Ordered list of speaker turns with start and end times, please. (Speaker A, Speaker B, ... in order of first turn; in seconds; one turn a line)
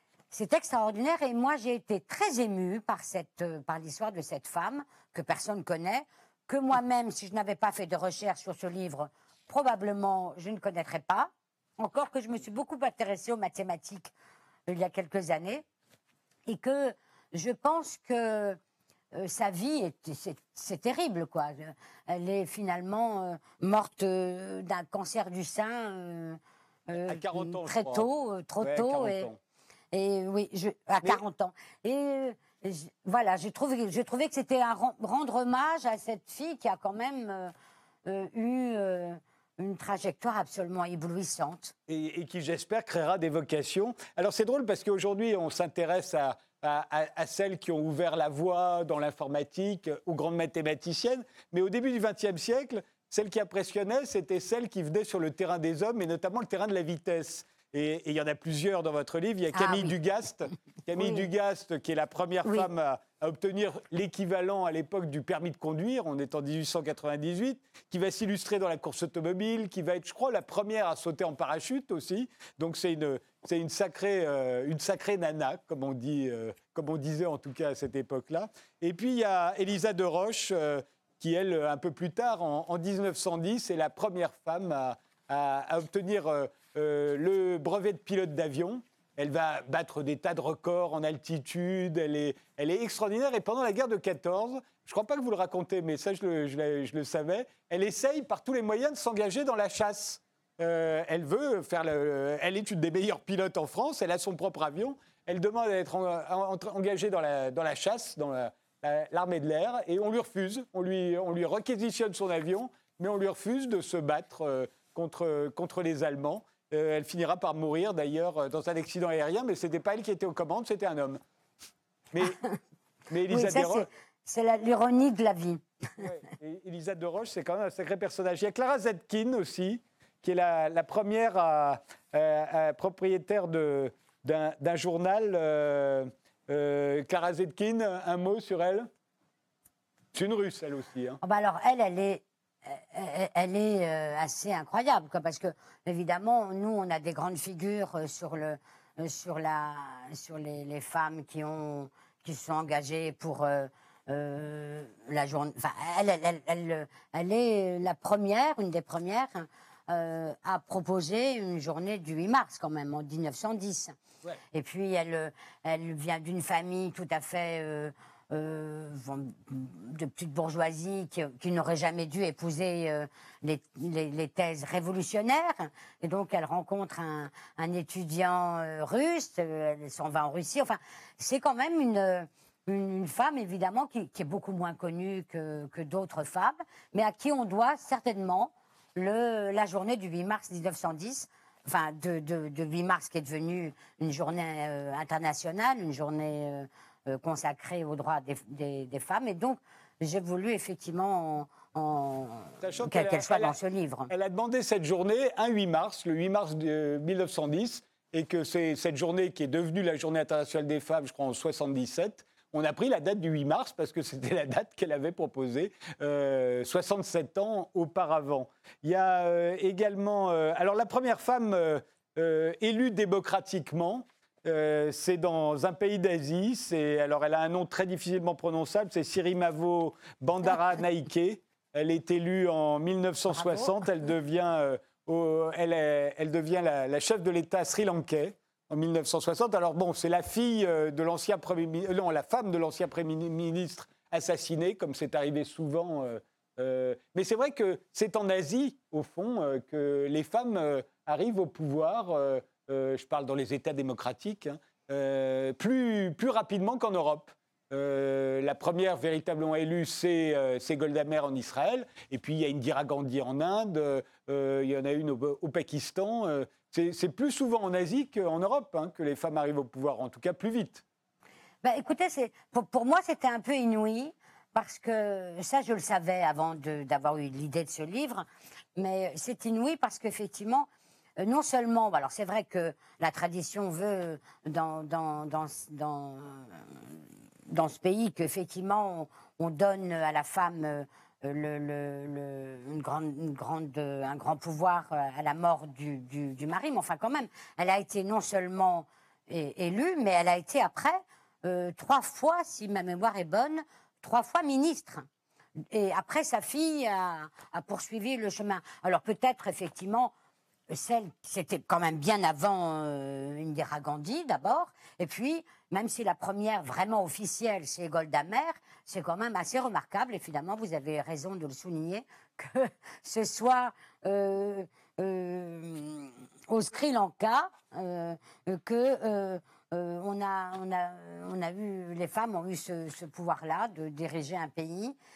Speaker A: 0.3-14.1
Speaker A: 14.7-15.6
Speaker A: 16.5-18.6
Speaker A: 19.1-29.3
Speaker B: 27.1-28.1
Speaker B: 28.6-29.4
Speaker A: 29.9-37.5
Speaker A: 38.0-41.7
Speaker B: 41.9-121.2
Speaker A: 59.5-59.9
Speaker A: 61.0-61.3
Speaker B: 122.1-122.4
Speaker A: 122.2-122.6
Speaker B: 123.1-123.9
Speaker A: 123.3-125.6
Speaker B: 126.0-138.9
Speaker B: 140.1-141.2
Speaker A: 141.2-164.0
Speaker A: 164.5-204.1
Speaker B: 202.6-203.6
Speaker B: 204.1-270.8
Speaker A: 233.4-233.7
Speaker A: 271.6-280.7
Speaker A: 281.2-286.8
Speaker A: 287.5-305.1
Speaker A: 305.7-310.1
Speaker A: 310.7-335.0